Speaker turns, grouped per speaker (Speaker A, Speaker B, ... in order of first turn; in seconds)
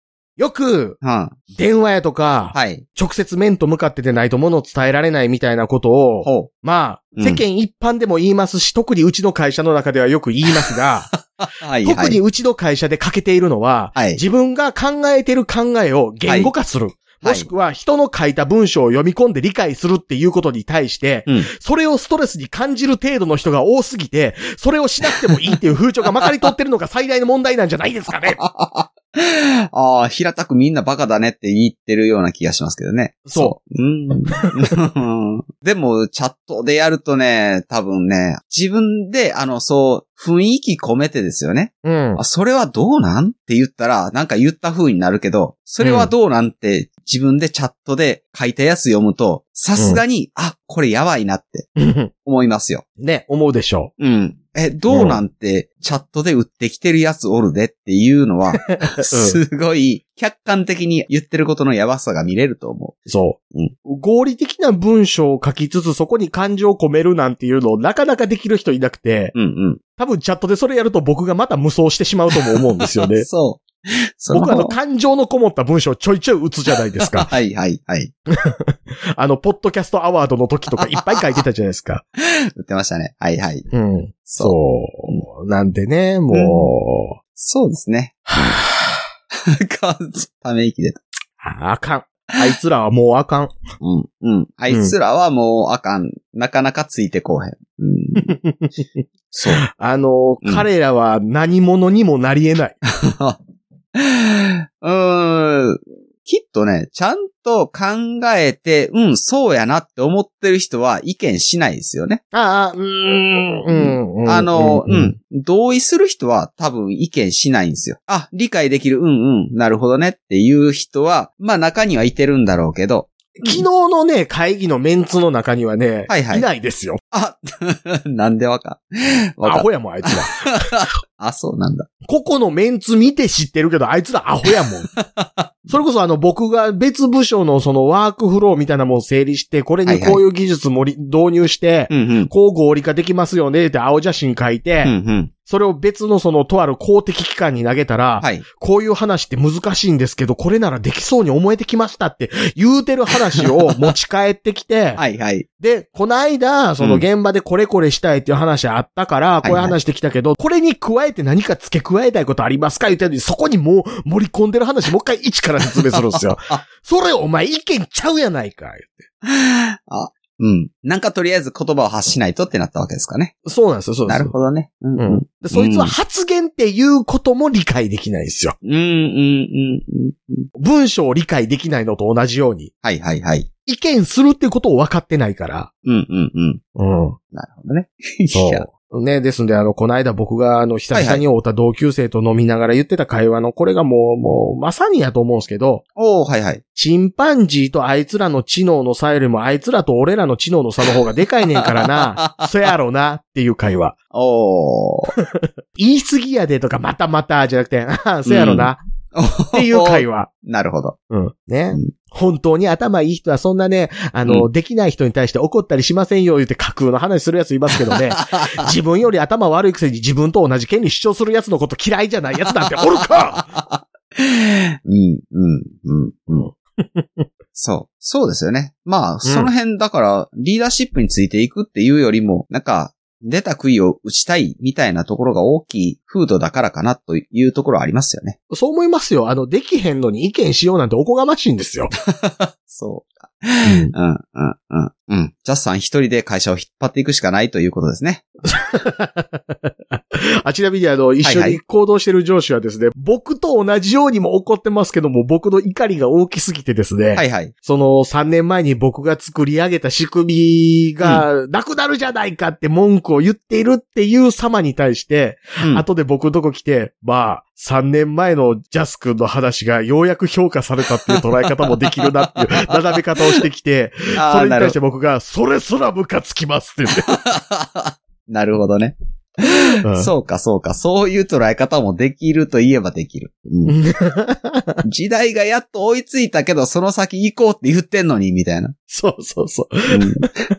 Speaker A: 0.4-1.0, 1.5-11.1, 11.8-28.4, 33.2-33.5, 41.8-42.2, 45.8-46.1, 51.8-52.1, 53.0-53.9, 54.9-55.2, 58.7-59.4, 63.1-69.3, 70.0-73.3, 74.3-77.3, 78.3-82.0, 83.7-87.2, 88.3-89.0, 91.4-93.5, 94.7-94.9, 98.1-99.0, 99.5-102.8, 112.3-115.1, 123.4-127.0, 129.4-130.9, 132.0-134.9, 135.7-144.9, 145.4-155.0, 155.6-169.1, 173.4-174.3, 175.0-178.6, 180.6-182.7, 183.7-185.7, 186.8-187.2, 188.3-195.8, 196.7-203.9, 205.3-208.8, 209.5-210.3, 211.1-223.5, 226.3-227.2, 229.2-229.5, 238.5-241.9, 243.6-243.9, 248.5-277.2, 279.8-280.1, 283.7-284.8, 288.9-290.4
Speaker B: 1.0-1.4, 2.5-2.8, 6.2-6.5, 7.2-7.4, 11.4-12.2, 13.9-14.2, 16.2-16.5, 17.2-17.5, 28.1-51.7, 52.2-52.8, 54.0-63.7, 69.3-69.8, 72.5-74.8, 77.0-78.1, 82.2-83.7, 84.3-84.5, 86.3-86.7, 87.3-88.3, 89.3-91.0, 93.8-98.3, 99.3-99.6, 102.8-103.4, 103.9-112.2, 113.7-123.6, 126.1-126.5, 127.1-131.9, 135.0-135.7, 139.8-140.2, 141.9-142.3, 144.8-145.3, 153.4-153.9, 155.0-155.4, 159.4-159.8, 165.7-166.6, 169.2-173.4, 174.1-175.9, 178.6-180.5, 182.8-183.5, 185.8-186.6, 187.3-188.6, 190.9-191.2, 195.9-196.6, 201.5-202.7, 204.1-205.1, 208.2-211.0, 217.9-218.7, 223.0-226.5, 227.5-238.4, 242.0-248.3, 251.2-251.6, 257.1-257.5, 274.1-274.8, 277.0-283.8, 284.8-288.7, 289.9-290.3